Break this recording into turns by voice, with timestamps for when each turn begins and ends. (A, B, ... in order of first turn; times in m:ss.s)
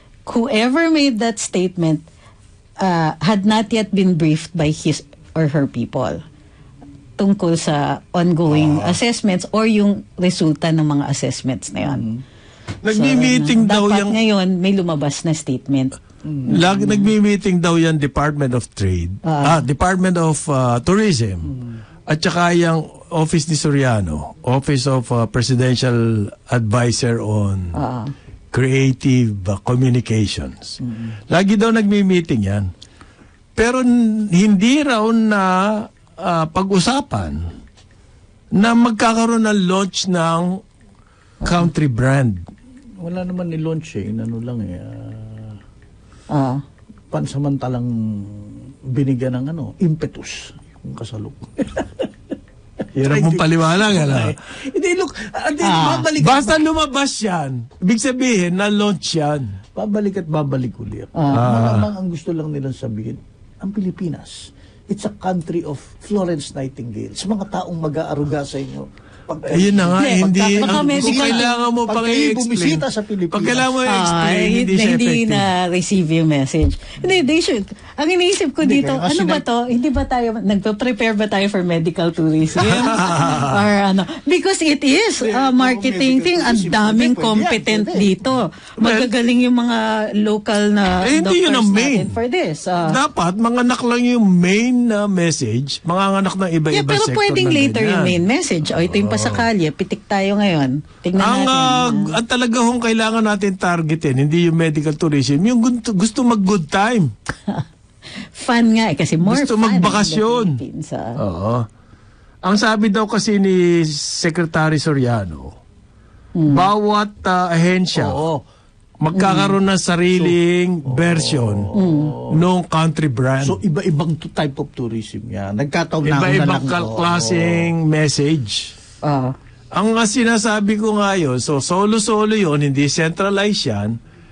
0:00.2-0:02.0 A
0:02.8-0:06.2 A
0:07.2-0:12.0 A
0:08.5-0:09.0 B
0:11.8-0:12.2 C
0:12.8-0:14.2 B
0:12.9-0:15.9 A
0:16.2-0:16.6 C
0:16.5-0:17.1 A
0:16.5-0:21.5 B
0:19.2-0:19.6 A
0:21.4-0:21.8 C
0:22.1-0:27.7 B
0:27.7-0:28.1 A
0:28.5-0:30.8 B
0:30.8-0:31.1 C
0:31.3-0:32.7 B
0:33.6-0:37.4 B
0:38.6-0:40.6 B
0:41.4-0:42.4 B
0:43.0-0:45.6 C
0:46.3-0:46.6 A
0:47.1-0:52.1 C
0:52.9-0:54.4 B
0:53.0-0:56.6 C
0:55.6-0:56.1 A
0:56.2-0:59.5 B
0:59.7-1:13.7 C
1:01.2-1:01.4 A
1:01.3-1:01.9 B
1:09.5-1:15.5 B
1:10.0-1:11.5 A
1:13.8-1:33.0 A
1:18.6-1:19.4 C
1:22.6-1:23.6 B
1:25.2-1:28.1 C
1:28.8-1:29.1 B
1:31.0-1:32.2 B
1:32.8-1:38.2 B
1:36.7-1:42.2 A
1:38.8-1:39.5 B
1:41.2-1:47.1 B
1:48.3-1:51.2 A
1:49.2-1:50.6 B
1:51.2-1:51.6 B
1:52.4-1:55.5 B
1:56.3-1:56.7 A
1:56.5-1:58.2 B
1:57.9-1:58.4 C
1:59.0-2:01.7 B
1:59.1-1:59.5 A
2:00.1-2:02.4 C
2:01.7-2:02.2 A
2:02.3-2:03.6 B
2:03.4-2:07.7 C
2:06.0-2:08.7 B
2:09.0-2:09.3 A
2:09.7-2:14.0 B